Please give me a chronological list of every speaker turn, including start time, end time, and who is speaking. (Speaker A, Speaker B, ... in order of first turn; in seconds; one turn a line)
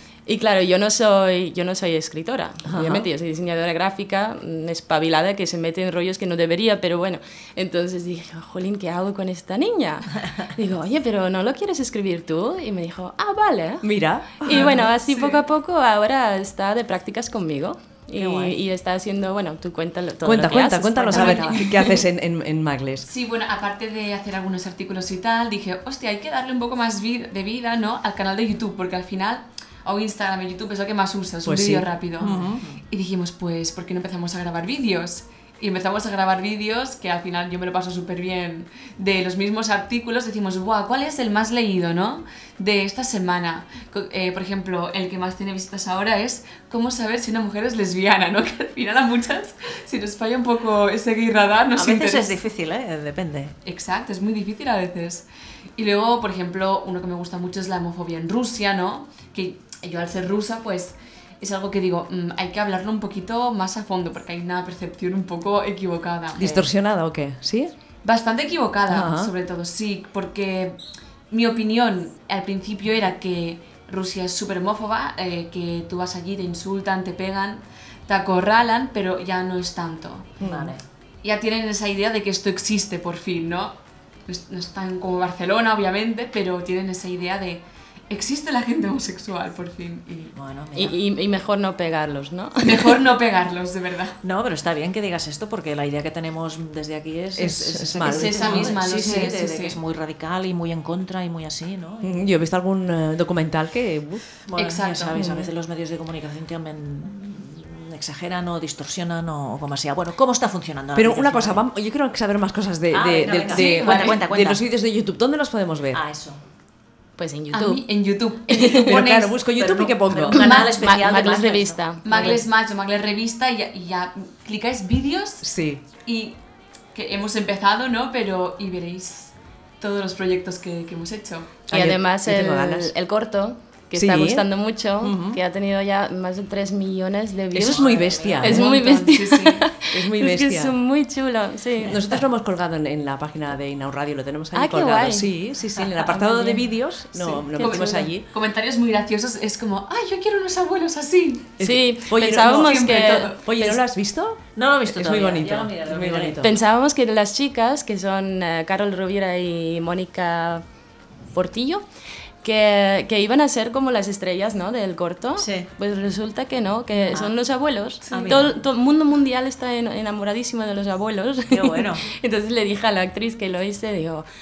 Speaker A: 0.2-13.9
Speaker B: 2.7-3.0
Speaker B: 13.8-14.8
Speaker A: 14.4-21.6
Speaker C: 14.5-15.4
Speaker D: 18.1-18.6
Speaker B: 20.2-23.1
Speaker C: 21.1-22.0
Speaker C: 23.1-52.4
Speaker B: 31.4-32.6
Speaker D: 32.2-32.8
Speaker D: 51.8-53.5
Speaker C: 53.6-55.2
Speaker C: 55.8-66.7
Speaker B: 66.4-67.7
Speaker C: 68.0-70.8
Speaker B: 68.9-69.3
Speaker C: 71.3-80.4
Speaker B: 80.4-80.7
Speaker D: 80.4-80.8
Speaker C: 81.2-83.7
Speaker C: 84.2-90.3
Speaker D: 90.3-91.0
Speaker A: 90.7-93.0
Speaker C: 92.6-94.2
Speaker D: 94.2-102.2
Speaker B: 97.3-98.8
Speaker C: 98.0-99.8
Speaker B: 102.0-104.2
Speaker D: 104.4-111.6
Speaker C: 104.5-105.4
Speaker B: 105.2-105.5
Speaker B: 110.9-116.0
Speaker D: 112.9-114.6
Speaker C: 113.7-114.1
Speaker D: 115.9-116.4
Speaker A: 117.2-117.8
Speaker C: 117.5-119.5
Speaker A: 118.5-118.9
Speaker B: 118.8-120.6
Speaker D: 119.5-122.4
Speaker C: 120.3-120.8
Speaker A: 120.4-122.4
Speaker C: 122.0-125.5
Speaker B: 125.4-125.8
Speaker C: 126.0-126.3
Speaker C: 126.9-131.6
Speaker B: 131.7-132.9
Speaker A: 131.7-142.2
Speaker B: 133.9-134.5
Speaker B: 135.0-135.4
Speaker B: 137.5-138.7
Speaker D: 137.6-138.6
Speaker C: 138.3-139.7
Speaker B: 139.9-140.7
Speaker B: 141.8-148.2
Speaker A: 144.5-145.3
Speaker A: 146.0-146.6
Speaker A: 147.2-148.1
Speaker C: 147.3-151.5
Speaker B: 151.6-152.9
Speaker A: 151.6-153.8
Speaker C: 152.2-153.4
Speaker B: 153.4-156.5
Speaker D: 154.6-156.5
Speaker A: 156.4-160.6
Speaker A: 161.3-161.8
Speaker A: 162.4-174.2
Speaker D: 165.4-165.7
Speaker D: 168.1-168.5
Speaker C: 168.1-168.4
Speaker D: 171.5-172.1